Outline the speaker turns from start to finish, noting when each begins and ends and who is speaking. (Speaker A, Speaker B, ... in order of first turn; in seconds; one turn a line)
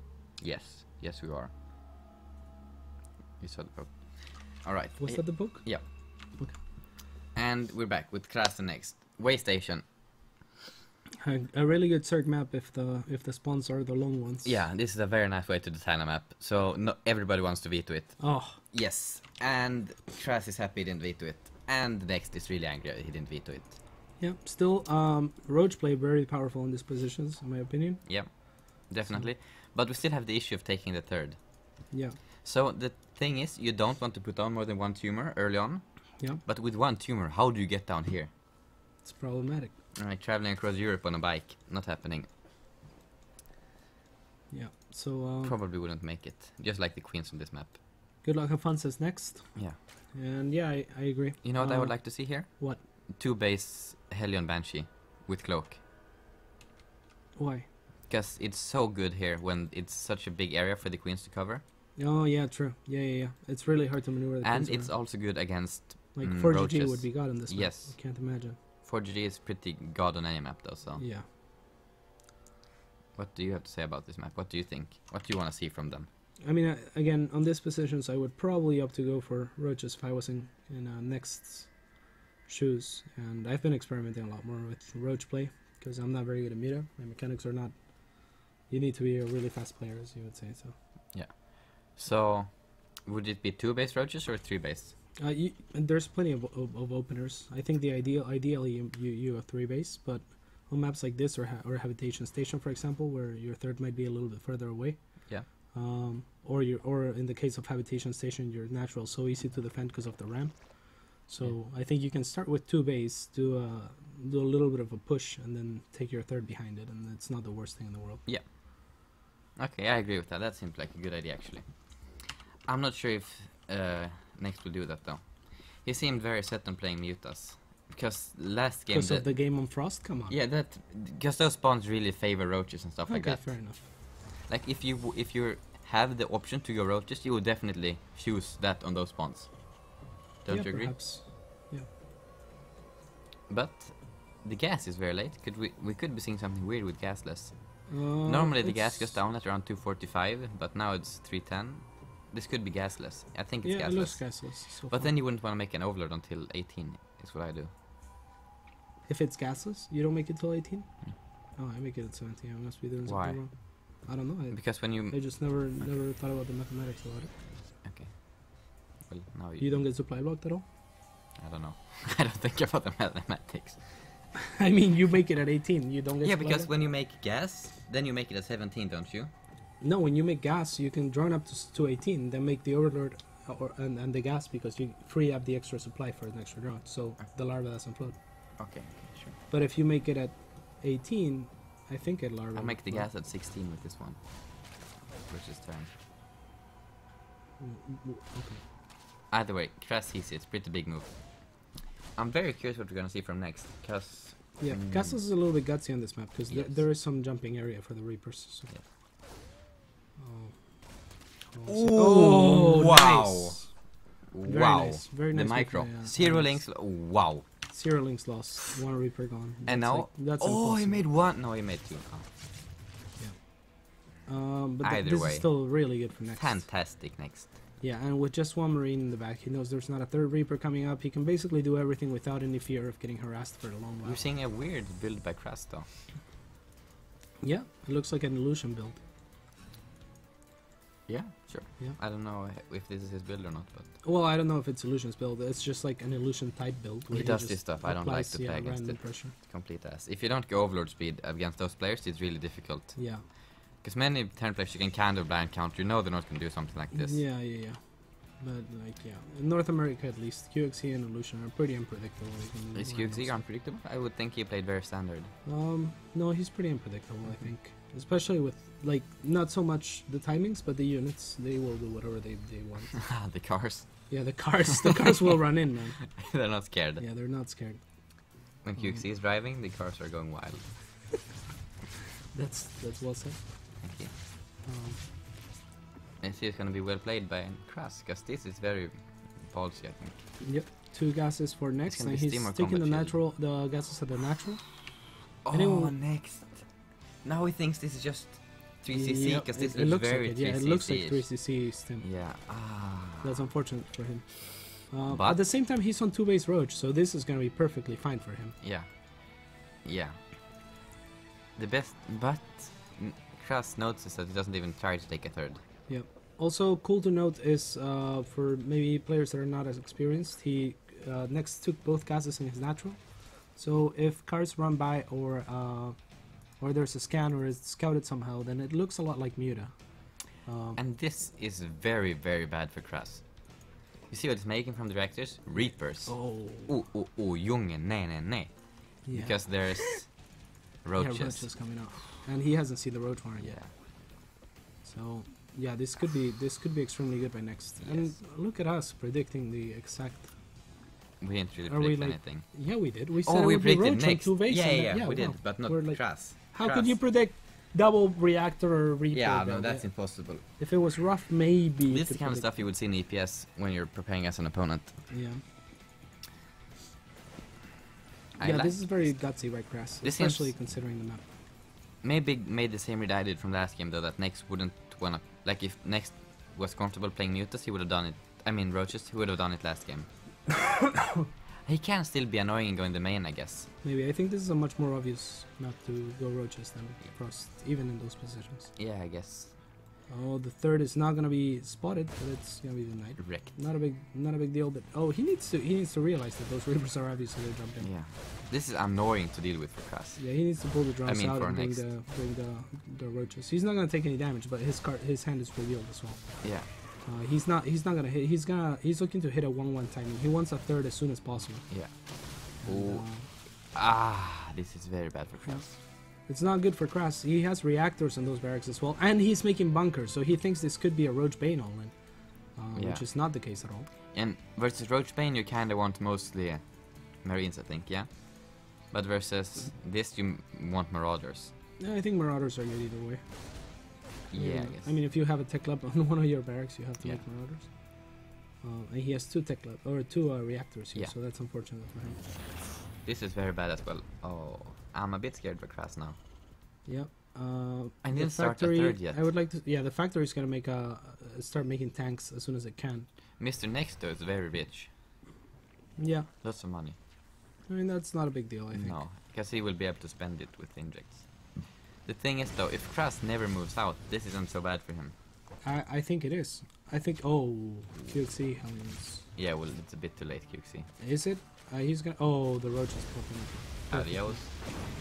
Speaker A: 0.4-1.5
Speaker A: 3.4-6.3
Speaker B: 5.0-6.6
Speaker A: 7.3-9.9
Speaker B: 11.2-14.6
Speaker A: 14.4-23.8
Speaker B: 18.2-18.6
Speaker B: 24.2-29.3
Speaker A: 28.1-31.9
Speaker B: 31.9-32.2
Speaker A: 32.4-38.3
Speaker B: 39.0-39.8
Speaker A: 40.0-42.3
Speaker B: 44.5-45.5
Speaker A: 45.4-47.8
Speaker B: 48.2-52.8
Speaker A: 51.4-55.8
Speaker B: 57.4-57.7
Speaker A: 58.1-61.6
Speaker B: 62.0-65.1
Speaker A: 64.4-68.2
Speaker B: 66.1-68.6
Speaker A: 68.8-71.0
Speaker B: 71.0-71.3
Speaker A: 73.1-76.1
Speaker B: 76.4-90.8
Speaker A: 91.1-94.9
Speaker B: 95.2-118.2
Speaker A: 119.5-129.4
Speaker B: 128.9-130.3
Speaker A: 130.3-141.1
Speaker B: 133.1-133.9
Speaker B: 140.5-141.9
Speaker A: 143.5-157.7
Speaker B: 147.9-149.2
Speaker B: 153.6-155.1
Speaker B: 159.1-167.4
Speaker A: 163.0-165.7
Speaker A: 167.8-169.8
Speaker B: 169.6-170.6
Speaker A: 171.4-174.2
Speaker B: 174.6-176.7
Speaker A: 176.2-179.3
Speaker B: 179.8-188.2
Speaker A: 188.6-189.3
Speaker B: 189.5-193.1
Speaker A: 192.5-195.9
Speaker B: 197.6-198.6
Speaker A: 199.3-205.2
Speaker B: 204.6-208.8
Speaker A: 206.5-206.8
Speaker B: 210.2-216.8
Speaker A: 211.7-213.8
Speaker A: 214.3-217.5
Speaker B: 217.6-221.1
Speaker A: 219.7-222.3
Speaker B: 223.2-226.9
Speaker A: 224.8-227.6
Speaker B: 227.8-234.2
Speaker A: 234.0-235.9
Speaker B: 237.4-239.0
Speaker A: 241.1-244.0
Speaker B: 244.0-249.3
Speaker A: 247.1-257.2
Speaker B: 252.9-253.2
Speaker B: 256.9-263.4
Speaker A: 262.7-265.3
Speaker B: 265.4-273.1
Speaker A: 273.1-274.6
Speaker B: 274.1-279.0
Speaker A: 276.1-277.1
Speaker A: 278.6-281.1
Speaker B: 282.3-283.9
Speaker A: 283.8-284.2
Speaker B: 284.6-285.0
Speaker A: 286.2-290.2
Speaker B: 290.4-294.8
Speaker A: 291.9-293.2
Speaker A: 295.4-303.4
Speaker B: 295.5-296.0
Speaker B: 298.9-302.1
Speaker B: 303.2-308.6
Speaker A: 305.0-305.4
Speaker A: 308.6-310.2
Speaker A: 311.6-315.6
Speaker B: 315.9-330.8
Speaker A: 330.8-341.7
Speaker B: 335.6-336.7
Speaker B: 339.0-340.1
Speaker B: 340.9-343.6
Speaker A: 343.4-343.7
Speaker B: 344.8-350.4
Speaker A: 347.8-348.1
Speaker A: 351.2-352.7
Speaker B: 351.7-362.6
Speaker A: 353.2-357.0
Speaker A: 359.1-360.4
Speaker A: 361.9-365.1
Speaker B: 365.1-365.4
Speaker A: 368.4-370.7
Speaker B: 368.4-371.2
Speaker A: 372.0-380.1
Speaker A: 381.6-383.7
Speaker B: 383.8-388.8
Speaker A: 388.8-389.6
Speaker B: 390.1-397.9
Speaker A: 393.2-393.5
Speaker A: 397.8-401.9
Speaker B: 400.2-411.7
Speaker A: 406.4-406.7
Speaker A: 411.7-415.8
Speaker B: 412.6-413.3
Speaker B: 415.4-423.9
Speaker A: 422.7-423.3
Speaker A: 424.1-431.5
Speaker B: 431.8-442.3
Speaker A: 434.3-434.9
Speaker A: 443.0-446.1
Speaker B: 446.8-453.1
Speaker A: 448.0-449.2
Speaker A: 453.4-454.9
Speaker B: 456.0-456.3
Speaker A: 456.4-456.9
Speaker B: 457.6-459.0
Speaker A: 458.7-465.1
Speaker B: 465.6-469.3
Speaker A: 469.3-470.9
Speaker B: 471.0-474.5
Speaker A: 473.9-474.5